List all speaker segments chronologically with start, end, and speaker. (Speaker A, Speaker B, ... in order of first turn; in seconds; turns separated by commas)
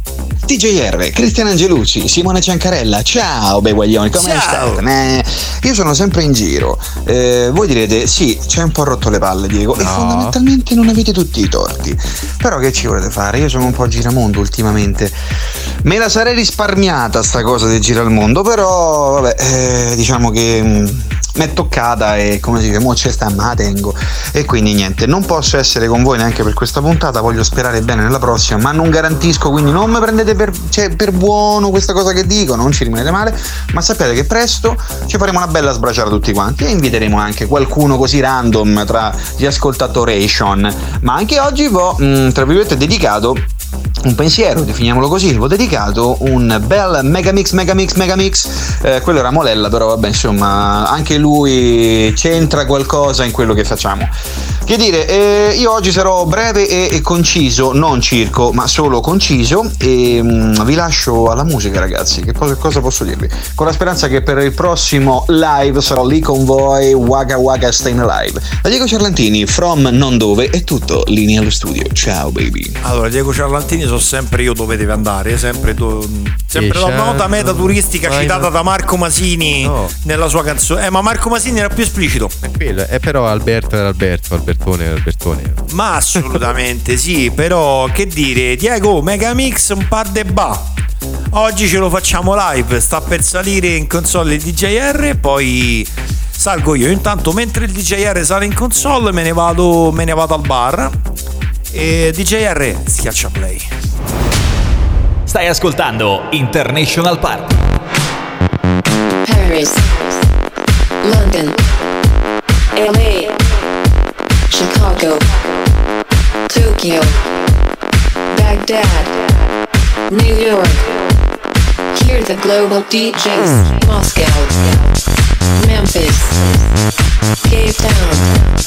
Speaker A: 0.5-15.2, Speaker B: 4.1-4.8, Speaker C: 9.8-10.3, Speaker A: 15.8-43.5, Speaker A: 44.0-54.1, Speaker A: 54.6-72.8, Speaker B: 72.8-82.3, Speaker C: 76.5-78.5, Speaker C: 79.6-79.9, Speaker C: 82.4-85.6, Speaker B: 85.7-90.7, Speaker B: 91.3-100.9, Speaker B: 101.7-103.7, Speaker D: 105.3-107.6, Speaker E: 109.2-110.2, Speaker E: 111.0-111.6, Speaker E: 112.7-113.3, Speaker E: 114.5-115.3, Speaker E: 116.5-117.2, Speaker E: 118.3-119.2, Speaker E: 120.1-121.0, Speaker E: 121.9-124.8, Speaker E: 125.6-126.6, Speaker E: 127.4-128.3